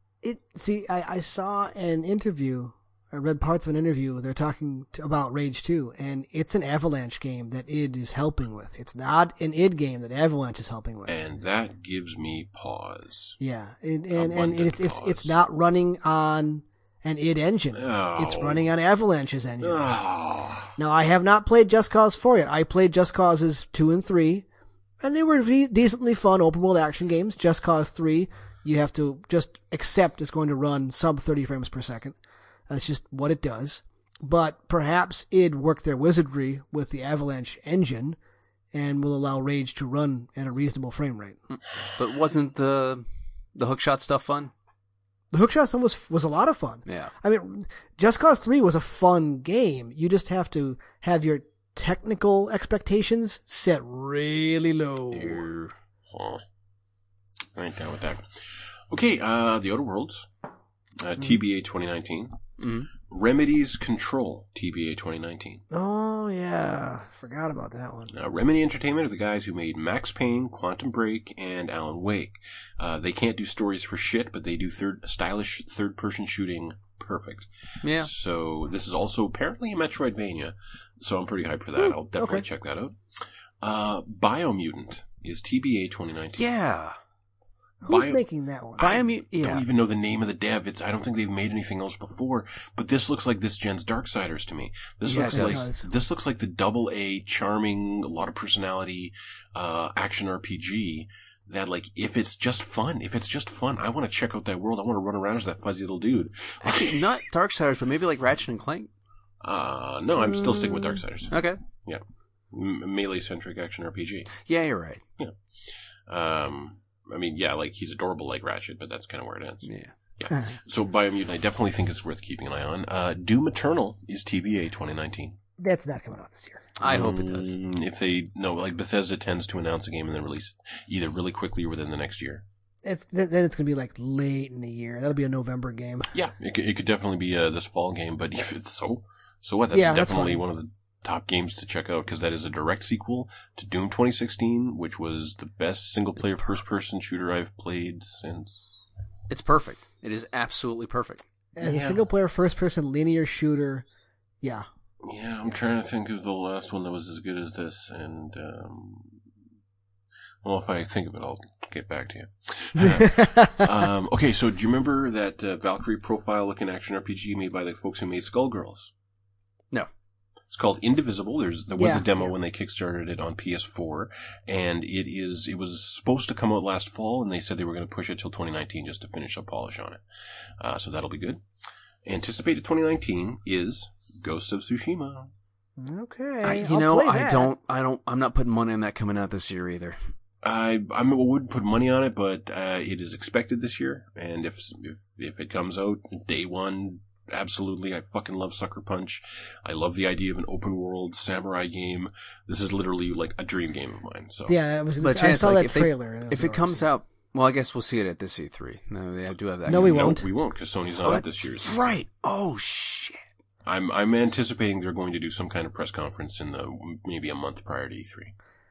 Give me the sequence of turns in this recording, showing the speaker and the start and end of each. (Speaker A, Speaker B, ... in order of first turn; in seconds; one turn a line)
Speaker A: 0.2-11.2
Speaker B: 11.1-13.4
Speaker A: 13.4-19.9
Speaker B: 14.1-15.3
Speaker B: 17.7-18.7
Speaker B: 19.6-20.7
Speaker A: 20.8-24.4
Speaker A: 25.0-32.1
Speaker A: 32.7-38.2
Speaker A: 38.7-41.4
Speaker C: 41.9-44.5
Speaker A: 45.3-55.5
Speaker C: 46.9-47.1
Speaker C: 55.1-55.7
Speaker B: 56.1-56.4
Speaker B: 57.5-60.3
Speaker B: 61.0-62.4
Speaker C: 62.6-62.9
Speaker B: 63.0-65.6
Speaker A: 65.7-68.1
Speaker B: 68.1-82.9
Speaker C: 77.8-78.1
Speaker A: 81.8-82.5
Speaker B: 83.6-86.4
Speaker C: 86.3-87.0
Speaker A: 87.8-89.0
Speaker B: 87.9-88.2
Speaker C: 88.8-89.6
Speaker B: 88.8-107.1
Speaker C: 95.0-95.6
Speaker A: 95.3-95.8
Speaker C: 106.6-108.9
Speaker B: 109.4-114.3
Speaker A: 110.2-111.0
Speaker C: 111.3-111.6
Speaker C: 114.4-115.0
Speaker B: 115.2-125.4
Speaker C: 119.6-119.9
Speaker A: 125.6-126.7
Speaker C: 126.8-127.5
Speaker B: 126.8-132.4
Speaker A: 132.8-136.1
Speaker B: 136.1-148.9
Speaker A: 139.7-140.4
Speaker C: 149.3-151.2
Speaker A: 151.6-153.8
Speaker B: 151.6-152.1
Speaker B: 155.0-159.2
Speaker B: 160.4-168.9
Speaker A: 162.8-163.7
Speaker B: 170.5-180.0
Speaker A: 171.8-172.1
Speaker B: 180.6-181.4
Speaker B: 182.0-185.3
Speaker A: 185.8-187.5
Speaker C: 186.4-190.0
Speaker B: 190.4-204.6
Speaker A: 204.5-206.9
Speaker C: 205.0-210.2
Speaker A: 209.7-210.3
Speaker B: 209.7-211.8
Speaker C: 211.0-213.2
Speaker B: 213.6-218.3